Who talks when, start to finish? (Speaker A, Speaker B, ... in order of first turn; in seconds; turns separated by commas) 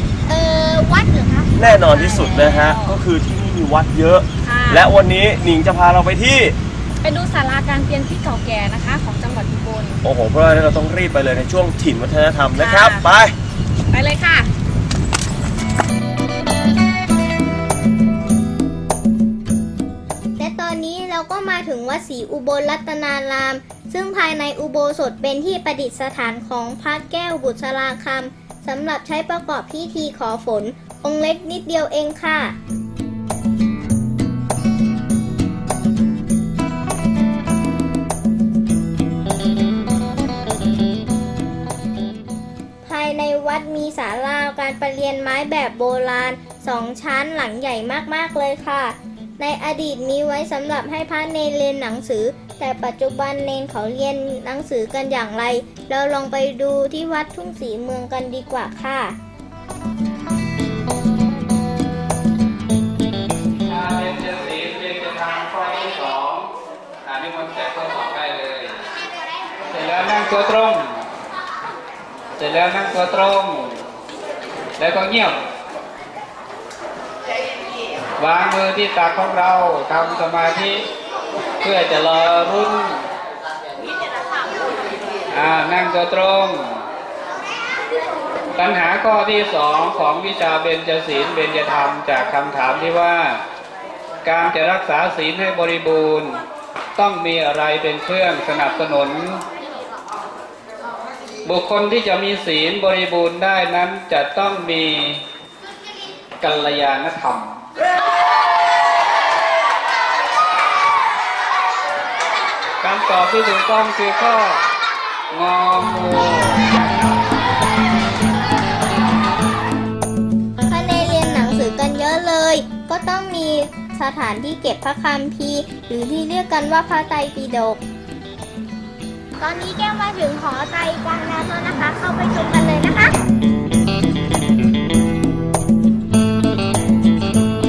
Speaker A: 0.2-2.7, Speaker B: 1.5-6.5, Speaker C: 1.9-3.0, Speaker C: 4.4-4.9, Speaker C: 7.0-10.0, Speaker B: 10.0-13.3, Speaker C: 12.6-13.1, Speaker C: 13.9-14.5, Speaker A: 20.4-32.5, Speaker A: 42.8-59.1, Speaker D: 63.7-66.5, Speaker D: 67.0-68.8, Speaker D: 69.7-71.0, Speaker D: 72.3-73.8, Speaker D: 74.8-75.4, Speaker D: 78.2-80.8, Speaker D: 81.6-83.0, Speaker D: 85.3-86.8, Speaker D: 88.5-93.4, Speaker D: 94.2-96.4, Speaker D: 97.0-99.4, Speaker D: 101.4-105.2, Speaker D: 106.4-107.6, Speaker D: 112.8-114.6, Speaker D: 115.3-117.4, Speaker A: 120.7-127.8, Speaker A: 129.4-133.1